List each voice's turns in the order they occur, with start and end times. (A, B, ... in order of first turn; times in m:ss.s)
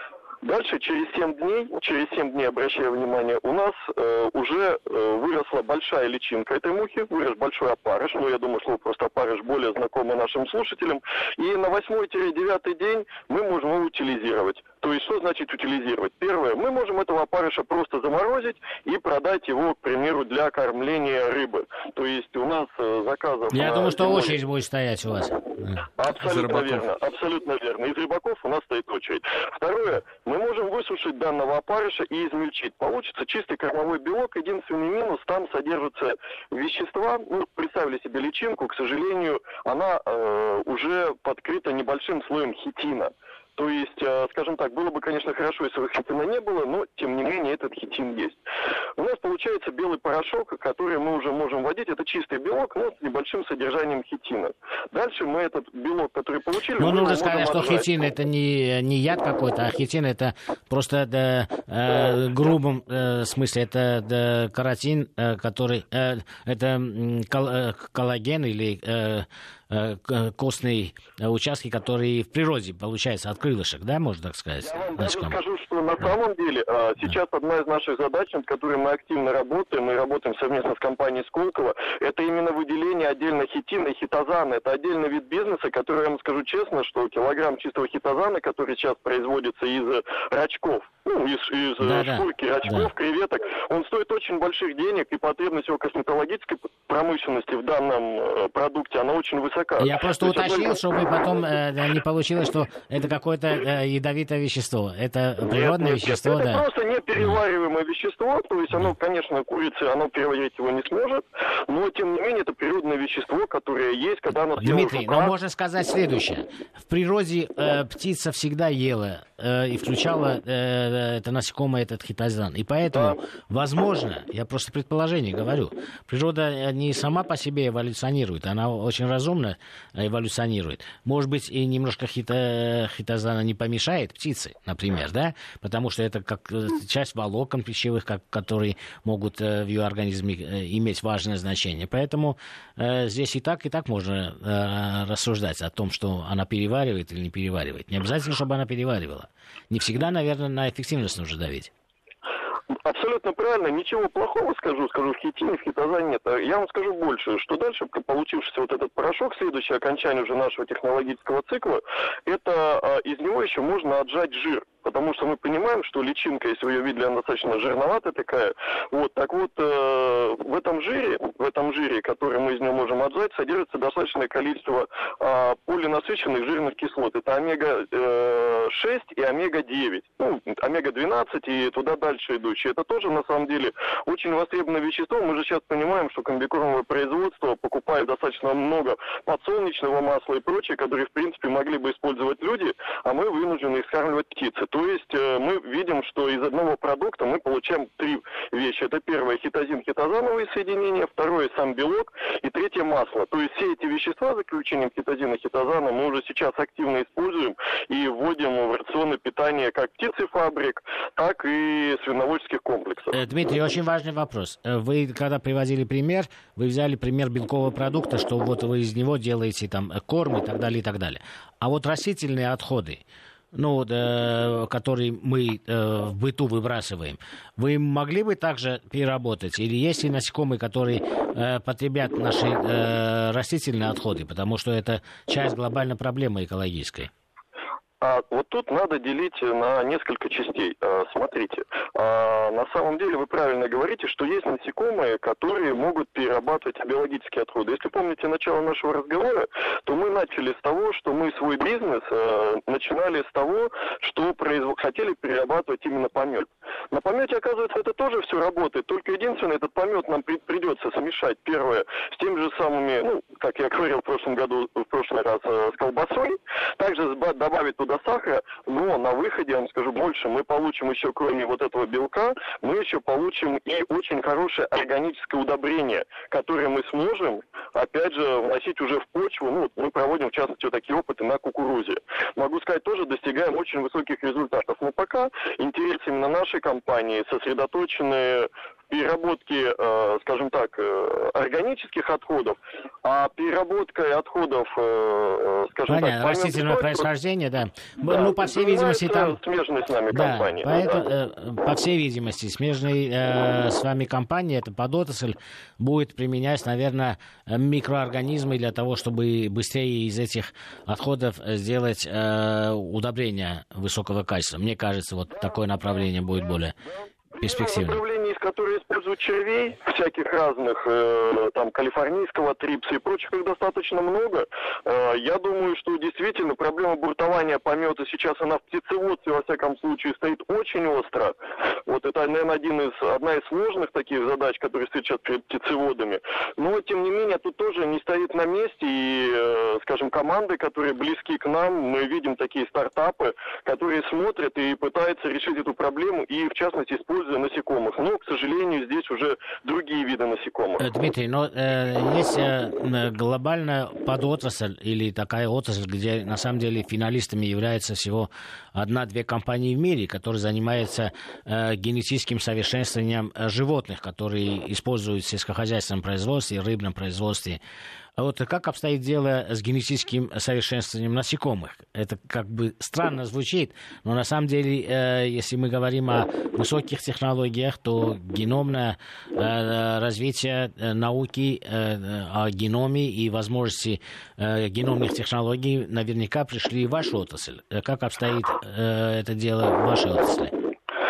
0:00.4-0:24.4 A
0:23.5-0:26.7 B
0:26.0-0:48.4 A
0:49.0-0:57.9 A
0:56.8-1:15.4 B
1:14.6-1:40.8 A
1:31.8-1:32.9 B
1:39.8-1:46.6 B
1:45.5-1:55.3 A
1:54.6-2:31.7 B
2:32.8-3:33.1 A
3:33.1-3:43.0 B
3:43.5-3:57.1 B
3:58.0-4:57.0 A
4:55.9-4:59.4 B
4:58.0-5:01.0 A
5:00.1-5:16.7 B
5:15.3-5:31.3 A
5:17.4-5:18.0 B
5:31.9-5:50.9 A
5:50.8-6:07.6 B
6:08.2-6:30.5 B